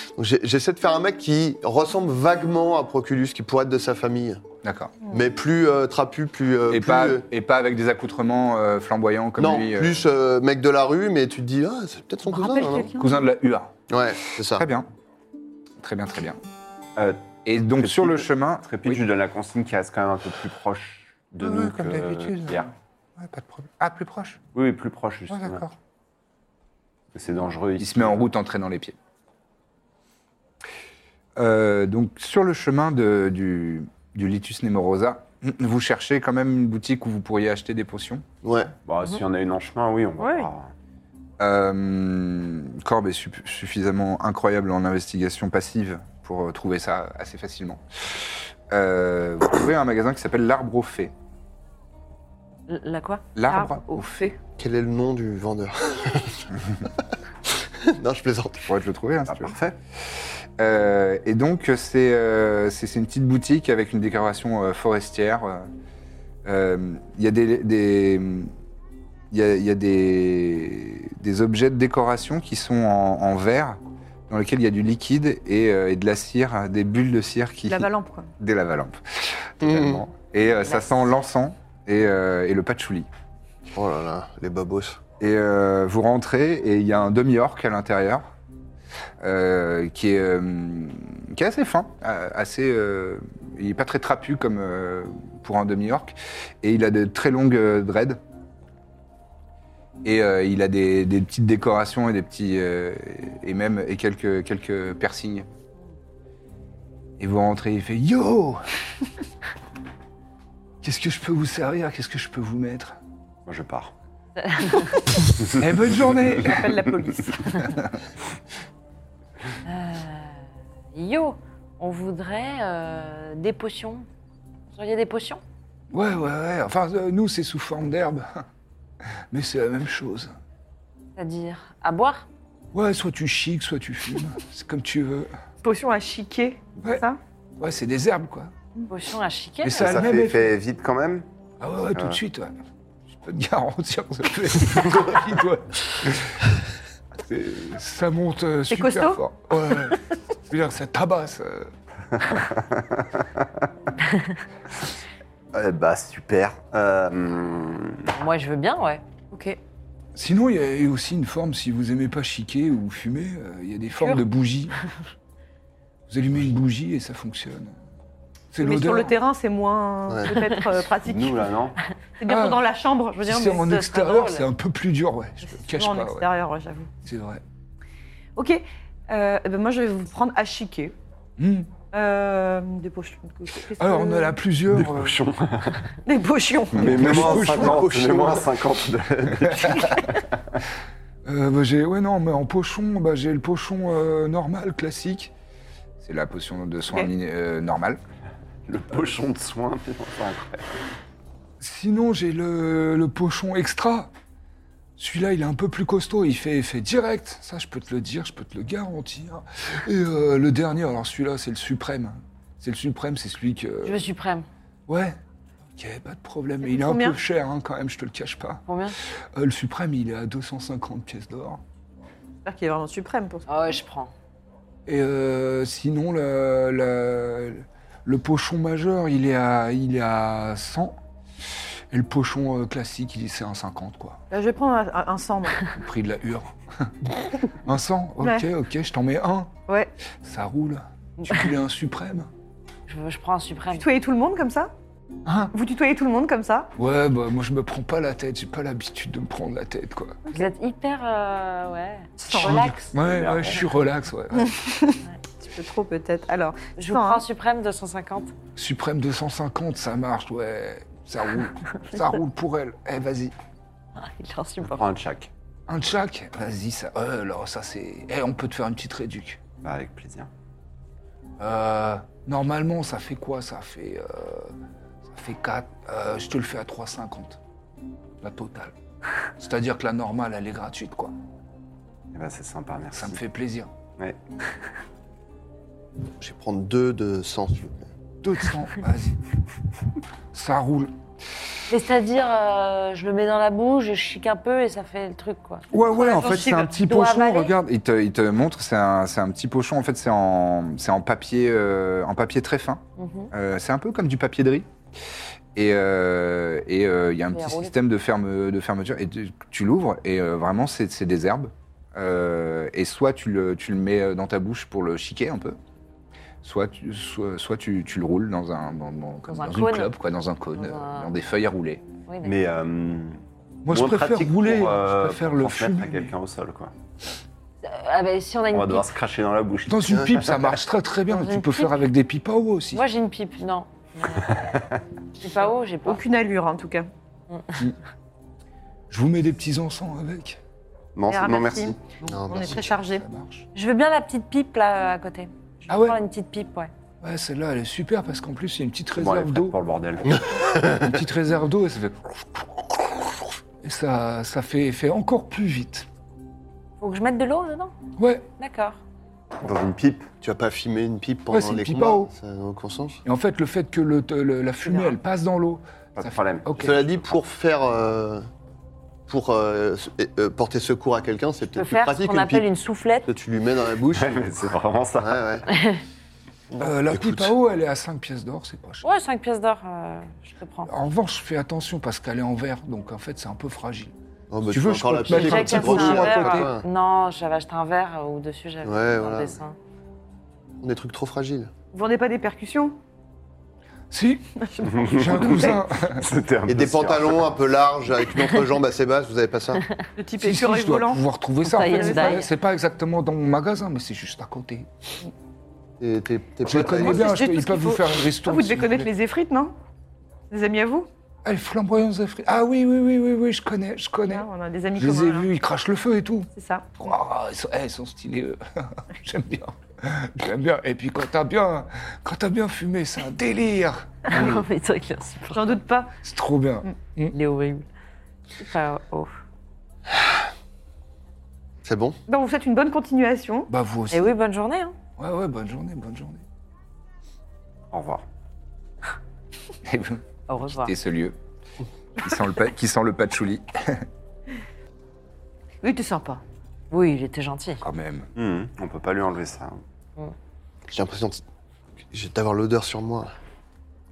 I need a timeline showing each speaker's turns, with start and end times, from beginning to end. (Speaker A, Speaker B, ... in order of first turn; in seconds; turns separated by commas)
Speaker A: 0.2-4.4, Speaker B: 4.6-4.9, Speaker A: 5.1-7.2, Speaker B: 6.7-10.0, Speaker A: 9.4-12.9, Speaker C: 12.3-13.1, Speaker B: 13.0-13.7, Speaker A: 13.9-14.7, Speaker B: 14.5-14.9, Speaker B: 15.8-16.4, Speaker D: 17.0-22.7, Speaker B: 17.4-19.0, Speaker B: 21.4-24.4, Speaker D: 24.5-25.6, Speaker B: 25.3-25.7, Speaker D: 27.1-28.2, Speaker B: 27.8-28.9, Speaker B: 31.4-38.2, Speaker A: 38.4-38.7, Speaker D: 38.9-40.7, Speaker E: 40.2-40.5, Speaker B: 41.4-51.1, Speaker E: 52.7-53.2, Speaker B: 53.4-54.3, Speaker C: 53.5-54.3, Speaker A: 54.6-56.5, Speaker A: 57.5-58.7, Speaker B: 58.7-59.5, Speaker D: 59.3-59.8, Speaker B: 60.1-65.7, Speaker B: 66.4-68.5, Speaker B: 69.3-77.9, Speaker C: 77.7-78.3, Speaker B: 78.4-83.1, Speaker A: 79.6-80.0, Speaker A: 83.7-85.0, Speaker B: 85.2-88.2, Speaker B: 89.2-98.2, Speaker B: 100.0-105.5, Speaker B: 107.2-108.6, Speaker B: 110.8-113.0, Speaker D: 113.5-113.9, Speaker E: 114.4-114.9, Speaker B: 115.5-116.8, Speaker C: 116.4-117.8, Speaker E: 119.6-120.4, Speaker E: 120.9-124.0, Speaker E: 124.7-125.4, Speaker B: 125.9-128.4, Speaker B: 129.3-130.3, Speaker E: 131.2-132.3, Speaker B: 132.7-135.3, Speaker C: 135.6-137.2, Speaker B: 137.6-138.5, Speaker E: 138.9-140.1, Speaker B: 139.6-140.5, Speaker D: 139.8-141.2, Speaker B: 141.6-142.5, Speaker D: 141.9-142.2, Speaker B: 143.1-146.5, Speaker B: 147.2-151.7, Speaker C: 148.7-149.2, Speaker D: 152.3-153.4, Speaker D: 155.5-158.1, Speaker E: 158.1-159.0, Speaker C: 159.3-159.6, Speaker B: 160.1-164.8, Speaker B: 166.1-167.8, Speaker B: 168.5-169.1, Speaker C: 168.6-171.5, Speaker A: 170.1-170.3, Speaker D: 171.0-171.8, Speaker C: 172.2-174.0, Speaker B: 172.2-172.6, Speaker B: 173.2-176.3, Speaker E: 173.8-174.5, Speaker C: 175.5-176.9, Speaker B: 177.0-177.4, Speaker C: 178.3-180.9, Speaker B: 181.4-181.7, Speaker C: 181.9-184.4, Speaker B: 183.8-185.2, Speaker D: 184.7-185.9, Speaker C: 186.0-187.7, Speaker B: 186.8-188.3, Speaker D: 186.8-190.2, Speaker B: 189.4-189.9, Speaker C: 189.6-190.2, Speaker B: 191.2-195.3, Speaker B: 196.0-198.0, Speaker D: 198.7-200.7, Speaker B: 201.6-204.1, Speaker B: 205.0-214.0, Speaker E: 213.8-214.5, Speaker B: 214.9-215.2, Speaker B: 215.8-218.6, Speaker C: 216.6-217.2, Speaker E: 218.7-219.0, Speaker B: 219.3-221.6, Speaker C: 222.4-223.5, Speaker E: 223.5-224.1, Speaker B: 224.8-230.9, Speaker B: 231.9-234.2, Speaker C: 234.3-235.7, Speaker B: 235.7-239.5, Speaker C: 238.2-238.4, Speaker B: 240.2-242.3, Speaker E: 242.9-243.8, Speaker C: 243.7-244.7, Speaker B: 245.2-245.5, Speaker C: 245.5-246.7, Speaker B: 246.8-250.2, Speaker E: 250.3-252.9, Speaker C: 252.2-252.8, Speaker B: 252.3-254.5, Speaker D: 253.0-253.6, Speaker C: 254.3-257.2, Speaker E: 256.8-258.3, Speaker B: 258.6-263.3, Speaker E: 264.0-264.8, Speaker D: 264.6-265.3, Speaker B: 265.7-269.4, Speaker D: 269.6-270.3, Speaker B: 271.4-274.5, Speaker B: 275.1-277.4, Speaker B: 278.2-278.7, Speaker B: 279.4-281.1, Speaker D: 282.1-283.2, Speaker B: 282.9-283.7, Speaker D: 284.0-284.5, Speaker A: 286.2-287.9, Speaker B: 288.2-289.2, Speaker B: 290.3-290.9, Speaker E: 291.7-297.5, Speaker B: 295.7-304.7, Speaker C: 295.9-296.7, Speaker E: 303.0-303.3, Speaker B: 305.5-315.6, Speaker E: 307.3-307.7, Speaker B: 316.4-321.8, Speaker E: 319.3-319.9, Speaker E: 320.5-321.1, Speaker E: 322.1-322.3, Speaker D: 322.2-326.7, Speaker B: 323.6-326.1, Speaker E: 327.6-328.9, Speaker D: 328.5-330.3, Speaker B: 329.7-332.8, Speaker E: 331.1-331.8, Speaker E: 332.7-334.6, Speaker D: 334.2-334.8, Speaker E: 335.2-336.0, Speaker C: 335.8-336.9, Speaker E: 337.3-337.6, Speaker B: 338.9-340.4, Speaker D: 340.9-341.8, Speaker C: 341.1-343.0, Speaker A: 342.0-342.7, Speaker B: 342.3-343.4, Speaker E: 343.5-346.7, Speaker B: 345.7-346.0, Speaker B: 347.0-349.6, Speaker D: 348.9-350.2, Speaker B: 350.5-353.0, Speaker B: 353.6-355.9, Speaker E: 356.8-357.7, Speaker B: 358.0-358.3, Speaker E: 358.4-358.8, Speaker D: 359.4-360.1, Speaker A: 360.2-363.0, Speaker B: 361.3-362.1, Speaker B: 363.1-366.8, Speaker E: 364.6-364.9, Speaker D: 365.9-366.6, Speaker A: 366.6-368.3, Speaker A: 369.1-372.5, Speaker E: 371.5-373.1, Speaker A: 373.1-374.3, Speaker D: 373.9-375.4, Speaker A: 375.0-375.4, Speaker E: 375.5-375.8, Speaker B: 376.6-378.8, Speaker D: 376.9-377.3, Speaker E: 378.8-380.7, Speaker B: 380.7-383.9, Speaker A: 384.3-386.6, Speaker B: 384.5-386.5, Speaker E: 385.1-389.6, Speaker A: 388.6-389.4, Speaker A: 390.6-391.5, Speaker C: 391.7-392.8, Speaker B: 393.9-396.1, Speaker C: 394.4-395.3, Speaker D: 394.6-397.4, Speaker A: 396.4-399.6, Speaker C: 400.0-401.0, Speaker B: 400.2-404.7, Speaker E: 401.4-402.3, Speaker C: 401.6-402.3, Speaker A: 405.8-407.2, Speaker B: 406.4-408.9, Speaker C: 406.6-409.5, Speaker C: 410.3-410.9, Speaker B: 411.2-424.4, Speaker C: 414.1-415.3, Speaker C: 416.3-416.9, Speaker E: 424.1-425.6, Speaker C: 425.3-425.9, Speaker B: 426.0-427.1, Speaker E: 427.1-427.6, Speaker E: 428.4-429.1, Speaker A: 431.6-432.0, Speaker C: 432.1-433.5, Speaker B: 433.5-434.1, Speaker E: 433.9-434.7, Speaker B: 435.0-436.2, Speaker D: 437.7-438.0, Speaker B: 439.6-441.1, Speaker E: 440.3-440.7, Speaker B: 442.0-443.9, Speaker C: 445.6-446.2, Speaker E: 446.7-447.6, Speaker B: 447.6-448.1, Speaker D: 448.1-449.6, Speaker A: 450.7-451.2, Speaker A: 451.9-453.1